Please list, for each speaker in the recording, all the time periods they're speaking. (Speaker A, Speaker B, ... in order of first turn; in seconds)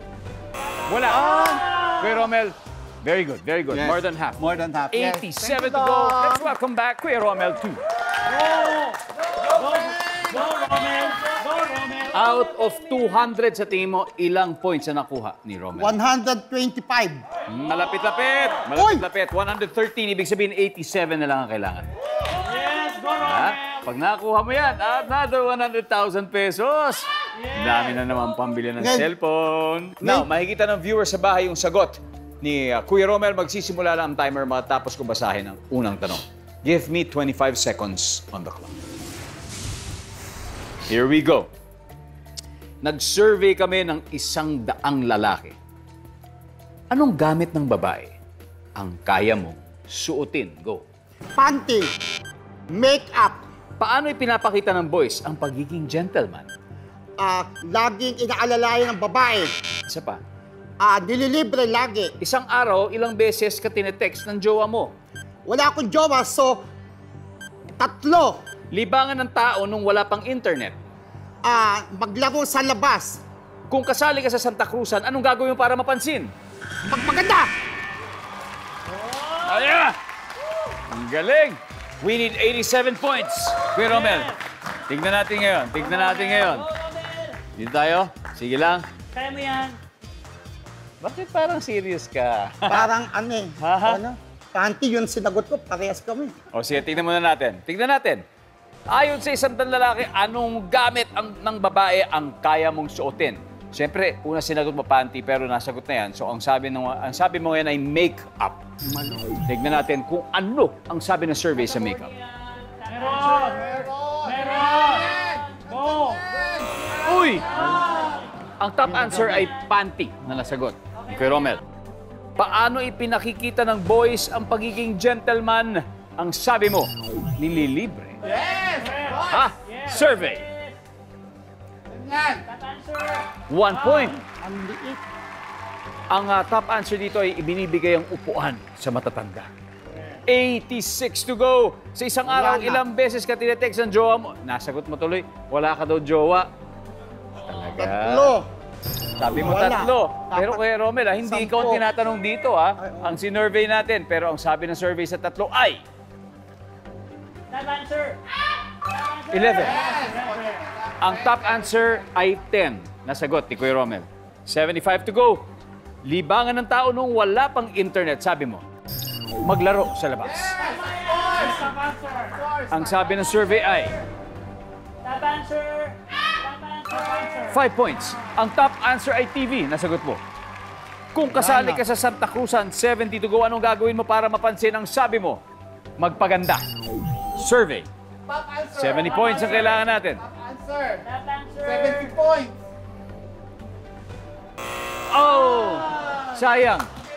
Speaker A: 0.9-7.8, 12.1-15.9, 17.5-21.9, 23.1-38.8, 40.9-41.5, 42.8-45.6, 46.9-48.1, 48.8-50.8, 53.8-56.5, 59.9-60.2, 62.2-64.9, 68.7-70.8, 73.7-76.3, 79.3-80.0, 80.9-84.3, 84.9-86.7, 87.5-88.9, 91.0-93.0, 93.6-94.0, 96.5-98.2, 98.9-108.6, 109.5-112.1, 117.0-117.6, 118.6-121.6, 122.4-128.2, 129.3-130.5, 133.5-134.2, 136.1-139.5, 140.3-146.5, 147.4-148.3, 149.2-155.8, 159.3-159.8, 161.0-165.5, 166.0-168.7, 169.4-170.7, 172.7-174.0, 177.4-180.2, 181.1-185.4, 186.0-186.7, 187.3-187.9, 188.7-190.2, 195.1-196.9
Speaker B: 1.1-1.7, 3.7-6.5, 113.0-118.2, 118.9-119.5, 128.2-129.5, 131.9-132.5, 142.3-142.8, 159.6-162.1, 170.2-173.3, 181.3-181.8, 188.3-191.1, 191.6-192.6
Speaker C: 9.8-12.1, 22.5-23.2, 86.0-87.4, 89.1-89.8, 112.1-113.7, 114.4-115.1, 117.5-118.2, 129.7-130.7, 132.6-133.3, 157.5-158.2, 158.9-160.2, 171.0-172.2, 175.0-177.5, 191.1-192.1
Speaker D: 15.8-17.2, 18.8-19.1, 28.8-29.1, 30.0-30.3, 51.4-51.9, 52.7-53.4, 57.2-59.5, 60.8-62.1, 65.5-66.6, 67.8-68.4, 71.4-73.2, 76.9-77.5, 92.7-96.4, 134.4-135.0, 147.8-148.5, 149.3-150.6, 151.2-151.8, 152.8-153.2